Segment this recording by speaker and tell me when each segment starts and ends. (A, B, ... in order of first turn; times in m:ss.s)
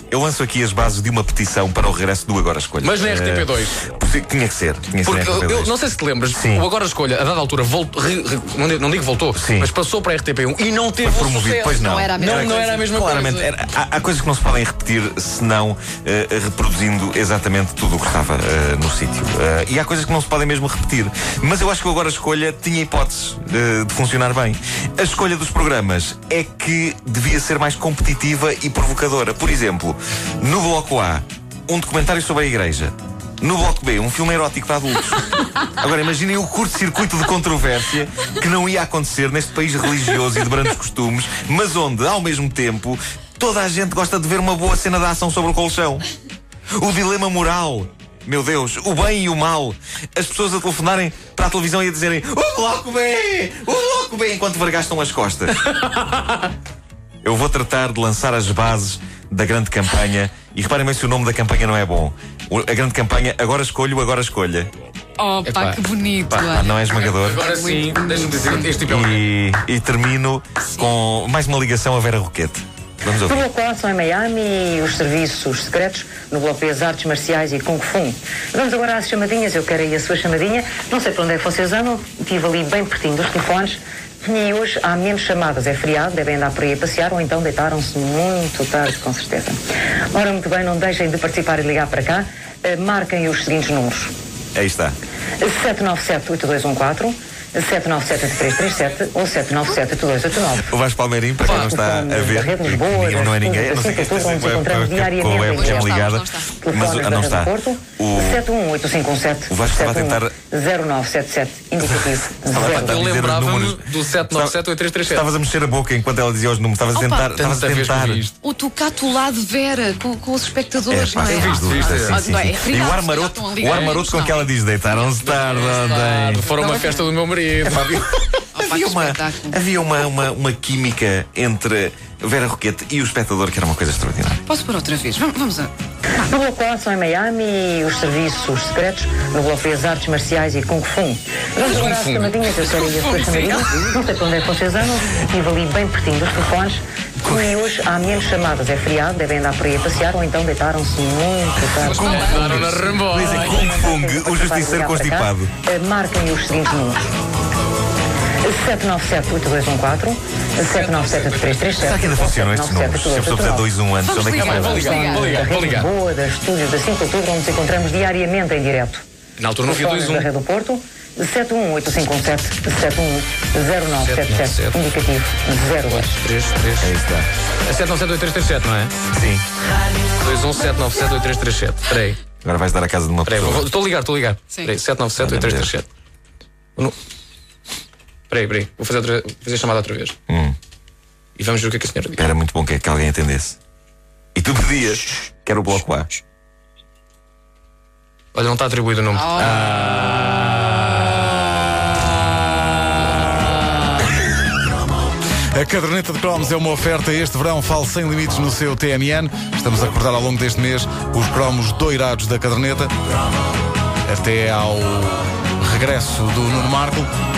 0:00.1-0:05.7 A
0:02.8-0:03.9 B
0:05.0-0:13.5 B
0:06.3-0:06.6 A
0:09.3-0:09.7 A
0:11.0-0:46.0 A
0:11.7-0:12.9 C
0:46.8-0:55.6 A
0:55.6-0:56.4 B
0:57.2-1:04.7 A
1:05.2-1:08.8 C
1:05.4-1:09.3 B
1:06.4-1:07.4 A
1:08.8-1:13.4 A
1:13.2-1:29.6 D
1:30.1-1:34.1 D
1:34.5-1:35.0 A
1:35.4-1:40.7 D
1:40.7-1:48.4 A
1:41.4-1:46.0 D
1:45.5-1:46.5 C
1:46.6-1:53.0 D
1:49.5-1:50.3 A
1:52.5-1:58.2 A
1:52.6-1:55.2 B
1:56.9-1:57.3 C
1:57.3-1:58.3 B
1:58.4-2:04.5 C
2:00.9-2:06.5 A
2:01.2-2:02.2 B
2:05.2-2:08.0 B
2:05.7-2:07.1 C
2:07.6-2:14.4 A
2:08.5-2:09.6 C
2:14.5-2:15.7 C
2:16.2-2:37.1 D
2:21.6-2:23.7 B
2:31.7-2:35.5 A
2:31.8-2:33.7 B
2:38.4-2:43.6 D
2:40.7-2:41.9 B
2:41.8-2:45.0 A
2:44.0-2:45.5 C
2:44.2-2:45.9 B
2:44.4-2:49.0 D
2:49.4-2:50.3 B
2:49.6-2:56.2 D
2:54.0-2:54.8 B
2:55.9-2:56.9 B
2:56.8-2:57.3 A
2:57.6-2:58.9 B
2:59.1-2:59.4 A
3:00.2-3:02.2 B
3:02.4-3:03.7 A
3:03.2-3:05.9 B
3:05.2-3:05.7 A
3:08.3-3:10.2 B
3:10.3-3:10.6 A
3:11.4-3:12.2 B
3:12.2-3:13.6 A
3:14.3-3:16.1 A
3:18.3-3:19.8 B
3:19.1-3:20.0 C
3:19.8-3:20.4 E
3:25.5-3:32.9 E
3:34.0-3:37.1 E